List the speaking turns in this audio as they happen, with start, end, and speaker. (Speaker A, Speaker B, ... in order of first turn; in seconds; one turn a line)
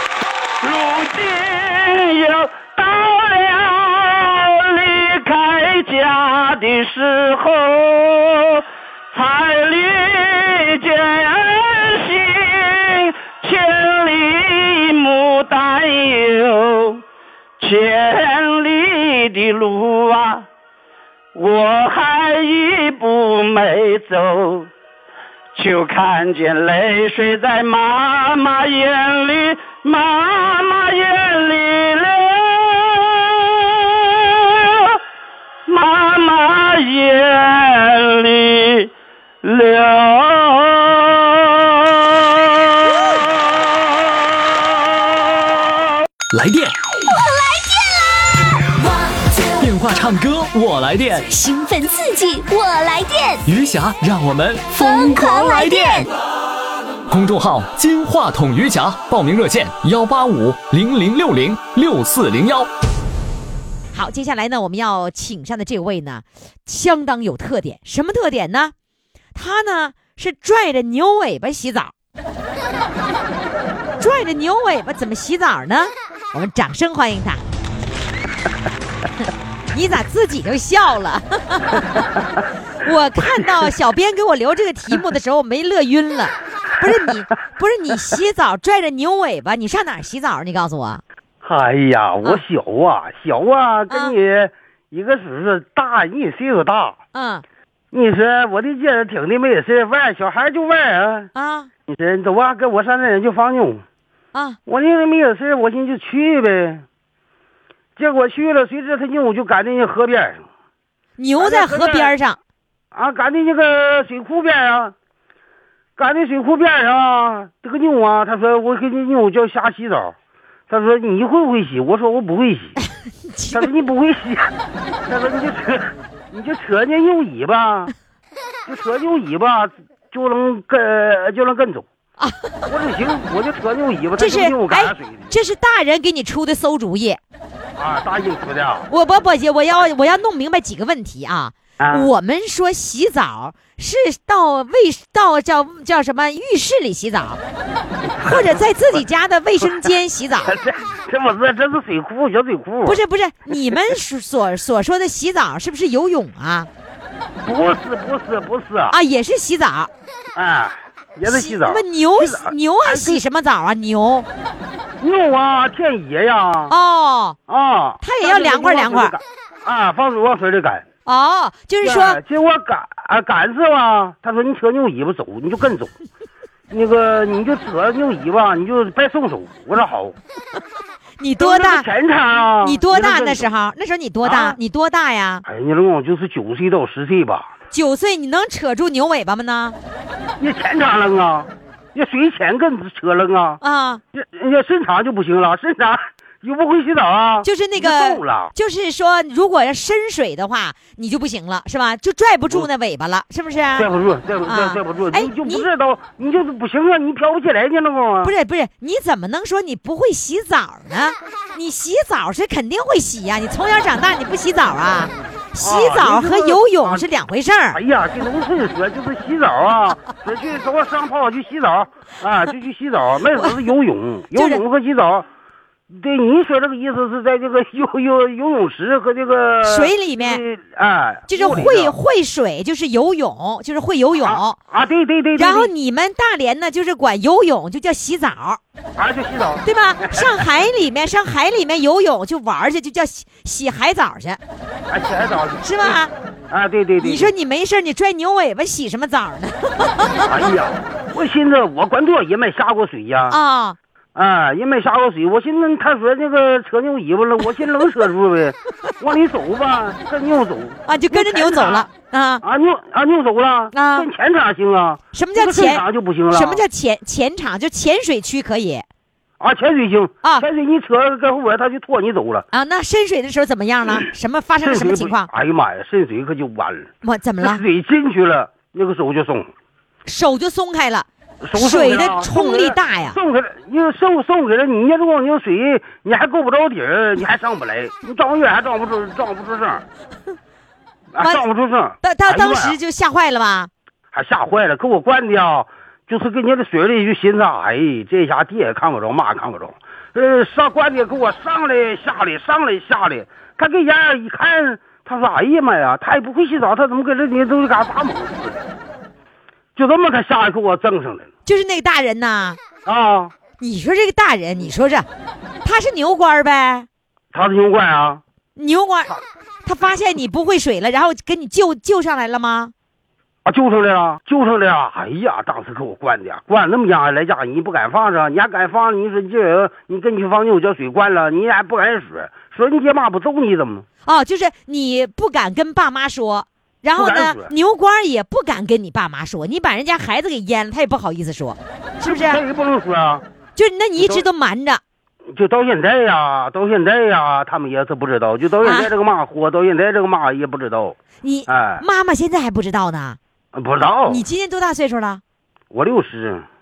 Speaker A: 0.6-17.0
Speaker A: 17.6-20.4
Speaker A: 21.3-24.7
Speaker A: 25.5-35.0
Speaker A: 35.7-38.9
Speaker A: 39.4-42.5
Speaker B: 46.3-46.8
Speaker C: 47.1-48.4
Speaker B: 49.6-51.3
Speaker C: 51.3-53.4
Speaker B: 53.5-56.1
Speaker C: 54.8-56.1
Speaker B: 57.1-62.7
Speaker D: 63.9-68.7
Speaker D: 69.3-71.9
Speaker D: 74.0-77.4
Speaker D: 79.7-82.0
Speaker D: 82.8-91.0
Speaker E: 91.4-97.0
Speaker D: 93.9-94.1
Speaker D: 97.1-97.4
Speaker E: 97.9-101.3
Speaker D: 101.3-101.7
Speaker E: 101.9-103.8
Speaker E: 104.7-106.8
Speaker E: 108.0-110.5
Speaker D: 111.2-112.4
Speaker E: 111.4-112.1
Speaker E: 112.9-114.9
Speaker E: 116.0-120.1
Speaker E: 120.7-122.8
Speaker D: 123.3-123.7
Speaker E: 123.5-124.5
Speaker E: 125.1-127.9
Speaker E: 128.7-131.9
Speaker E: 132.7-135.3
Speaker D: 134.2-137.2
Speaker E: 137.8-138.9
Speaker D: 138.9-147.4
Speaker E: 141.8-142.1
Speaker E: 148.0-149.0
Speaker D: 148.2-150.6
Speaker E: 149.6-149.9
Speaker E: 150.4-153.8
Speaker D: 152.8-156.7
Speaker E: 157.4-158.9
Speaker D: 158.9-159.9
Speaker E: 160.3-163.2
Speaker D: 161.2-164.3
Speaker E: 165.0-166.7
Speaker D: 166.7-167.4
Speaker E: 167.5-170.8
Speaker D: 168.0-169.2
Speaker D: 171.1-172.2
Speaker E: 171.8-175.9
Speaker E: 176.7-180.2
Speaker D: 181.2-181.9
Speaker E: 181.4-183.5
Speaker D: 182.6-185.4
Speaker E: 184.2-184.6
Speaker E: 185.4-187.5
Speaker D: 187.7-189.8
Speaker E: 190.4-193.6
Speaker D: 193.6-194.0
Speaker E: 194.1-198.5
Speaker D: 197.4-203.9
Speaker E: 203.8-208.3
Speaker D: 204.4-205.7
Speaker D: 208.2-217.8
Speaker E: 215.6-217.1
Speaker E: 217.7-225.2
Speaker D: 223.3-223.6
Speaker D: 224.3-224.6
Speaker E: 225.9-232.0
Speaker D: 229.6-230.4
Speaker D: 231.3-234.6
Speaker E: 234.2-235.7
Speaker D: 235.3-238.6
Speaker E: 238.9-240.5
Speaker D: 239.6-244.4
Speaker E: 244.9-247.3
Speaker D: 245.6-246.1
Speaker D: 247.0-250.4
Speaker E: 250.3-253.4
Speaker D: 253.3-253.8
Speaker E: 254.1-261.9
Speaker D: 260.9-262.4
Speaker E: 262.4-266.6
Speaker D: 263.7-264.1
Speaker D: 265.1-268.8
Speaker E: 269.4-272.4
Speaker D: 272.5-275.3
Speaker E: 274.6-279.5
Speaker D: 277.0-277.6
Speaker D: 280.1-283.2
Speaker E: 281.4-289.8
Speaker E: 291.1-292.8
Speaker D: 291.2-291.4
Speaker D: 292.0-293.7
Speaker E: 294.1-308.6
Speaker E: 309.8-311.3
Speaker D: 311.4-312.6
Speaker E: 312.8-313.3
Speaker D: 313.6-315.1
Speaker D: 315.6-316.9
Speaker E: 317.3-318.2
Speaker D: 318.6-322.7
Speaker E: 323.4-333.9
Speaker D: 334.0-342.4
Speaker E: 336.9-337.5
Speaker E: 342.0-343.2
Speaker D: 343.6-344.8
Speaker E: 344.0-344.2
Speaker E: 345.3-351.8
Speaker D: 348.6-348.9
Speaker D: 351.2-353.2
Speaker E: 353.5-354.2
Speaker D: 354.1-355.2
Speaker E: 355.7-356.4